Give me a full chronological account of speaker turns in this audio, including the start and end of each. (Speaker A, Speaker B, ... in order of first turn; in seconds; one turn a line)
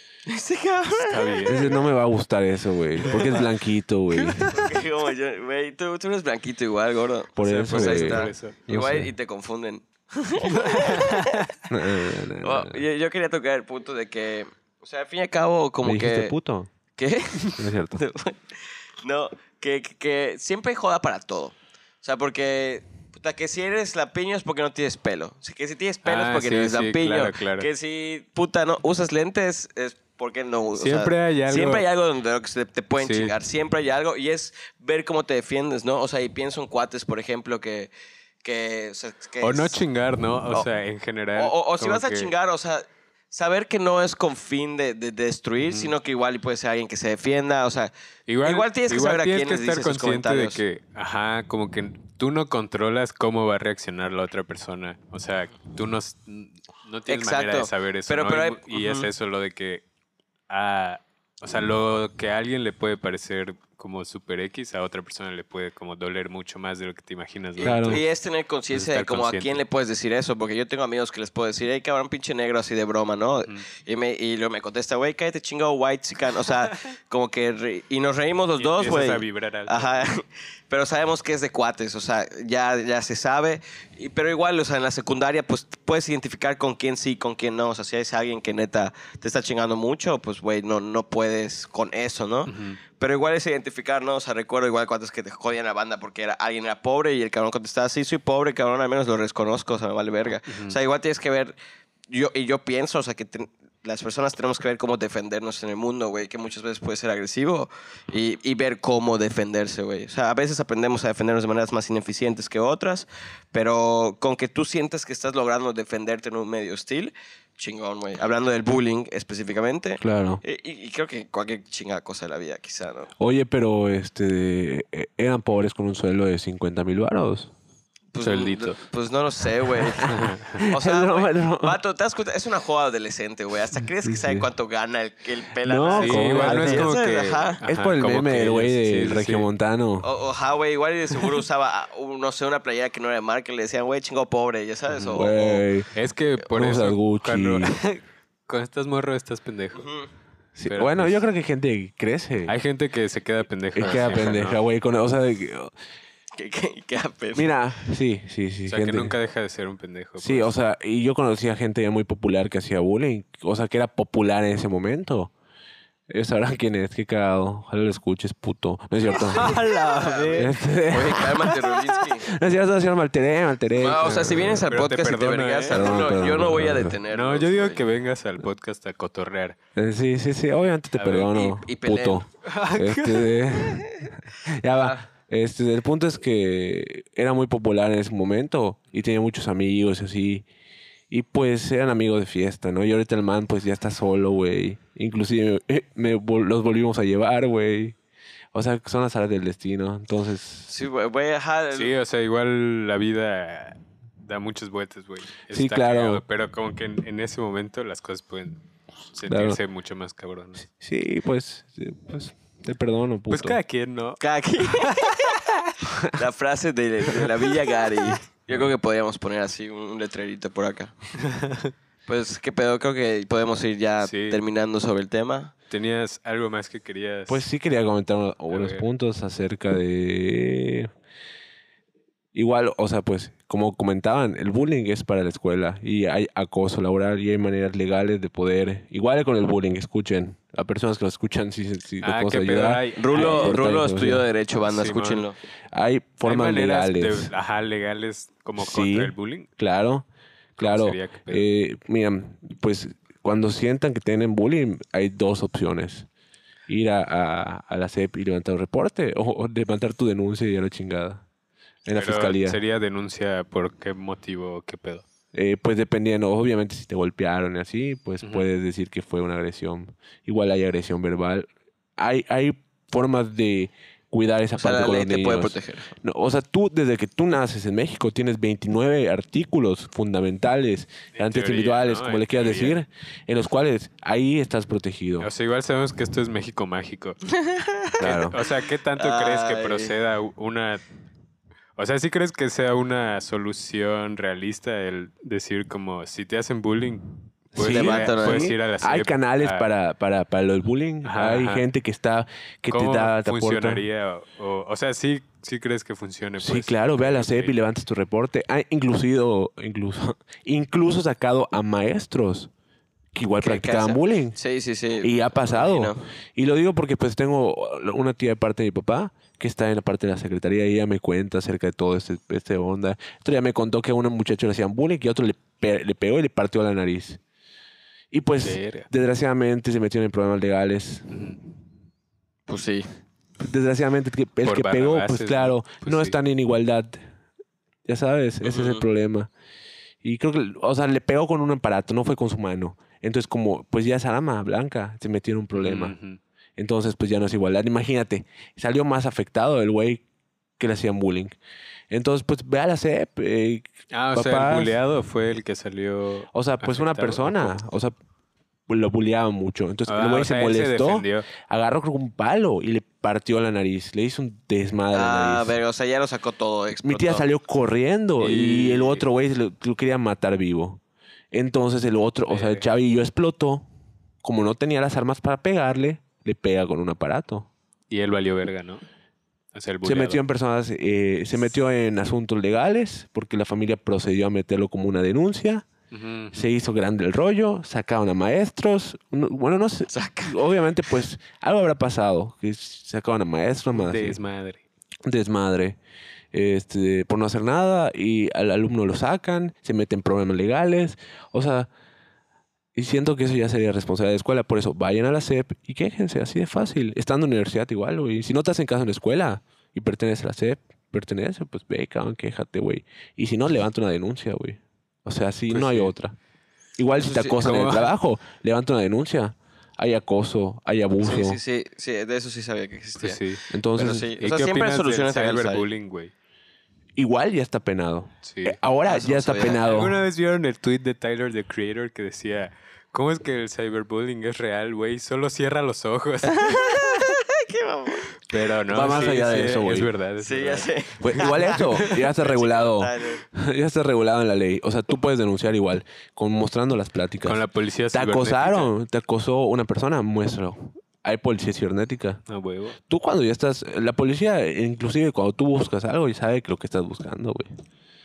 Speaker A: 0.3-1.8
Speaker B: 0.9-1.7
Speaker C: 1.5-4.6
Speaker A: 3.1-3.5
Speaker A: 4.1-11.5
Speaker C: 7.4-9.1
Speaker B: 7.4-8.6
Speaker B: 10.4-11.4
Speaker C: 11.7-12.8
Speaker A: 12.4-16.3
Speaker C: 15.8-16.7
Speaker A: 16.9-37.9
Speaker C: 17.6-18.0
Speaker B: 26.1-27.7
Speaker B: 30.8-31.8
Speaker B: 33.0-33.3
Speaker A: 38.4-39.8
Speaker B: 39.4-42.3
Speaker A: 41.4-47.9
Speaker B: 45.6-45.9
Speaker B: 48.3-59.8
Speaker A: 48.4-50.6
Speaker A: 57.1-59.1
Speaker B: 60.5-68.1
Speaker A: 67.6-101.5
Speaker C: 67.6-68.0
Speaker B: 68.7-69.6
Speaker B: 78.6-80.0
Speaker B: 92.5-92.8
Speaker B: 100.5-100.8
Speaker A: 102.1-123.1
Speaker C: 120.0-120.4
Speaker C: 123.2-127.5
Speaker A: 128.1-137.6
Speaker B: 128.2-128.8
Speaker C: 130.0-131.8
Speaker B: 130.1-130.6
Speaker C: 134.1-134.4
Speaker C: 135.6-136.9
Speaker B: 136.0-139.5
Speaker C: 137.7-140.1
Speaker A: 140.0-145.6
Speaker B: 144.9-145.3
Speaker C: 145.1-145.9
Speaker B: 145.9-149.9
Speaker C: 146.5-147.7
Speaker A: 149.8-150.1
Speaker C: 150.6-152.6
Speaker B: 150.7-151.2
Speaker B: 152.5-154.6
Speaker C: 153.8-155.7
Speaker A: 153.8-154.4
Speaker A: 156.4-157.5
Speaker C: 157.3-159.2
Speaker B: 158.7-160.5
Speaker C: 160.2-165.3
Speaker C: 166.1-169.6
Speaker B: 169.1-171.6
Speaker A: 169.4-172.3
Speaker C: 170.3-171.6
Speaker C: 172.2-174.7
Speaker A: 173.8-177.8
Speaker B: 174.7-176.3
Speaker C: 175.7-177.0
Speaker B: 177.1-179.6
Speaker C: 179.8-190.4
Speaker B: 181.0-181.3
Speaker A: 181.3-182.2
Speaker B: 182.4-183.6
Speaker A: 184.7-185.1
Speaker C: 191.1-198.0
Speaker C: 198.5-200.7
Speaker A: 200.7-201.9
Speaker B: 201.7-208.6
Speaker C: 205.5-206.2
Speaker B: 209.1-210.7
Speaker C: 209.3-209.6
Speaker C: 210.7-213.6
Speaker B: 213.3-215.8
Speaker A: 214.2-215.4
Speaker A: 216.1-220.9
Speaker B: 221.3-221.7
Speaker A: 222.1-225.5
Speaker B: 224.0-224.4
Speaker B: 225.7-227.4
Speaker C: 227.3-230.9
Speaker B: 228.5-228.8
Speaker C: 232.3-244.3
Speaker B: 242.0-243.7
Speaker A: 243.0-245.4
Speaker B: 244.6-245.3
Speaker C: 245.7-247.3
Speaker B: 246.2-249.5
Speaker C: 248.6-250.1
Speaker B: 250.6-251.4
Speaker C: 250.6-256.1
Speaker C: 256.7-261.2
Speaker C: 261.9-262.6
Speaker B: 261.9-265.1
Speaker C: 265.3-285.3
Speaker B: 268.2-268.5
Speaker A: 274.6-275.9
Speaker B: 281.1-282.8
Speaker B: 285.2-287.2
Speaker A: 287.4-288.0
Speaker B: 288.0-290.8
Speaker C: 288.0-288.4
Speaker A: 289.0-289.9
Speaker B: 291.8-299.7
Speaker C: 297.6-303.9
Speaker A: 297.6-298.5
Speaker B: 301.0-301.6
Speaker B: 302.7-307.6
Speaker C: 306.4-312.5
Speaker C: 313.1-314.4
Speaker A: 313.4-316.1
Speaker C: 315.0-327.2
Speaker C: 328.1-331.2
Speaker B: 328.4-328.9
Speaker B: 331.1-331.4
Speaker A: 332.5-332.9
Speaker C: 333.4-337.0
Speaker B: 334.4-336.1
Speaker C: 337.9-339.3
Speaker A: 338.4-338.8
Speaker C: 340.0-345.9
Speaker B: 345.6-346.2
Speaker C: 346.6-350.0
Speaker C: 350.6-351.4
Speaker C: 351.9-354.8
Speaker B: 353.9-357.6
Speaker C: 356.3-357.9
Speaker C: 358.7-365.5
Speaker B: 359.9-361.3
Speaker A: 364.9-367.3
Speaker C: 366.8-370.8
Speaker B: 368.2-369.1
Speaker C: 371.3-373.6
Speaker B: 372.3-372.6
Speaker C: 374.2-377.5
Speaker B: 377.9-378.8
Speaker B: 379.5-380.2
Speaker C: 379.8-385.7
Speaker B: 385.9-386.5
Speaker C: 386.3-394.2
Speaker A: 389.9-390.4
Speaker B: 393.7-394.6
Speaker C: 395.1-395.8
Speaker C: 396.3-401.7
Speaker C: 402.8-416.1
Speaker B: 415.5-415.9
Speaker C: 416.8-421.4
Speaker A: 416.9-417.5
Speaker B: 417.4-417.9
Speaker A: 421.0-425.7
Speaker B: 423.0-423.4
Speaker C: 423.5-424.1
Speaker B: 424.2-426.1
Speaker C: 426.9-430.0
Speaker B: 428.2-428.6
Speaker A: 428.9-429.8
Speaker B: 429.4-437.1
Speaker A: 436.3-438.3
Speaker B: 438.3-441.9
Speaker C: 438.7-439.9
Speaker A: 440.2-443.2
Speaker C: 441.0-452.2
Speaker B: 447.2-448.7
Speaker B: 452.3-452.8
Speaker C: 452.9-457.5